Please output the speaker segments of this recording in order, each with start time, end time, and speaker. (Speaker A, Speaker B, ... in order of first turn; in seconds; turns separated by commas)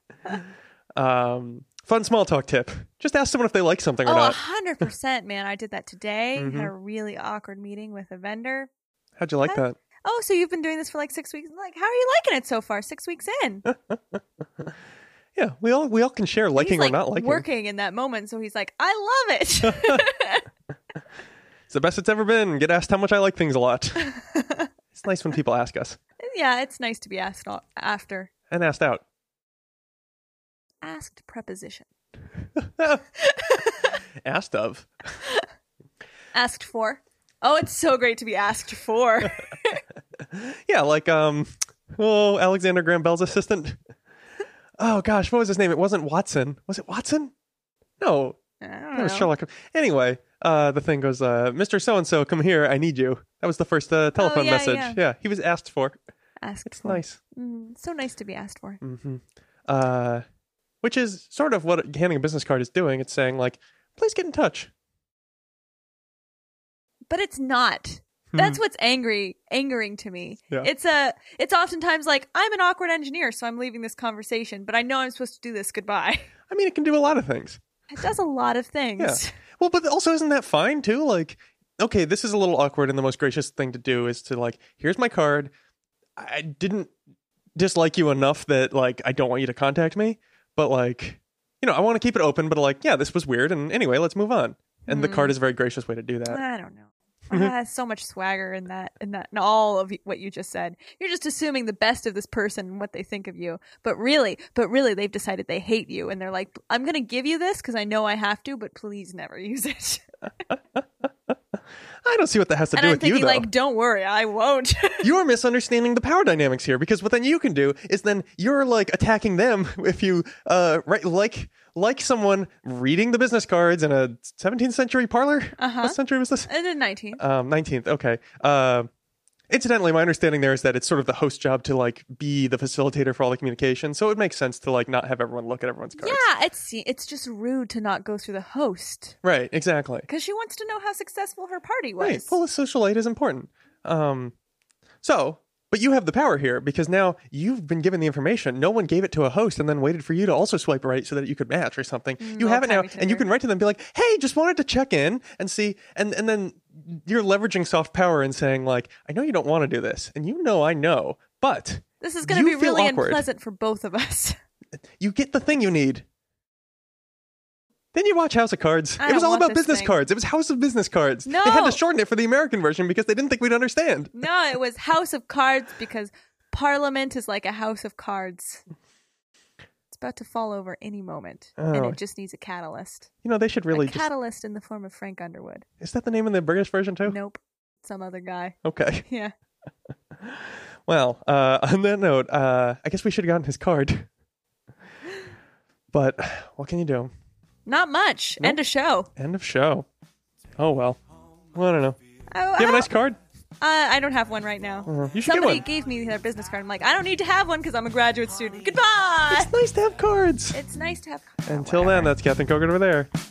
Speaker A: 0.9-4.4, Speaker B: 4.0-8.7, Speaker A: 6.4-6.7, Speaker A: 9.2-9.8, Speaker B: 9.4-13.7, Speaker A: 15.4-17.4, Speaker B: 16.6-20.4, Speaker A: 19.6-20.1, Speaker A: 21.7-24.1, Speaker B: 24.1-24.7, Speaker A: 24.9-26.0, Speaker B: 26.2-28.3, Speaker A: 28.5-29.0, Speaker B: 30.8-31.9, Speaker A: 32.6-33.0, Speaker B: 33.2-34.0, Speaker A: 34.2-34.9, Speaker B: 36.3-39.8, Speaker A: 40.3-43.8, Speaker A: 44.8-47.3, Speaker A: 48.0-48.4, Speaker B: 48.6-49.3, Speaker A: 48.9-56.0, Speaker B: 54.2-55.0, Speaker B: 56.4-58.8, Speaker A: 56.6-57.2, Speaker A: 58.8-60.2, Speaker A: 60.8-64.7, Speaker B: 67.1-76.3, Speaker A: 68.3-68.6, Speaker A: 76.5-77.6, Speaker B: 77.9-79.3, Speaker A: 79.0-85.5, Speaker A: 86.2-86.9, Speaker A: 87.5-96.4, Speaker B: 94.9-95.4, Speaker B: 96.3-110.0, Speaker A: 112.0-113.5, Speaker B: 112.7-115.1, Speaker A: 115.0-126.5, Speaker B: 125.6-127.2, Speaker A: 127.2-128.9, Speaker A: 129.5-136.2, Speaker B: 136.0-139.2, Speaker A: 139.2-140.1, Speaker B: 140.1-142.4, Speaker A: 142.0-144.3, Speaker A: 145.0-163.2, Speaker B: 152.2-153.3, Speaker B: 162.0-164.4, Speaker A: 165.0-166.1, Speaker A: 167.9-174.2, Speaker B: 169.0-170.0, Speaker B: 171.3-171.8, Speaker B: 174.1-178.6, Speaker B: 179.9-183.1, Speaker A: 181.6-182.0, Speaker A: 183.2-184.1, Speaker B: 183.7-185.6, Speaker A: 185.8-187.2, Speaker B: 187.1-189.3, Speaker A: 188.6-189.0, Speaker A: 190.2-194.1, Speaker A: 195.9-197.1, Speaker B: 197.7-199.1, Speaker A: 199.2-199.9, Speaker A: 200.6-201.0, Speaker A: 201.5-202.0, Speaker B: 202.3-202.9, Speaker A: 202.6-203.2, Speaker B: 203.6-209.5, Speaker A: 204.9-205.6, Speaker A: 209.3-210.6, Speaker B: 210.5-212.1, Speaker A: 211.5-213.1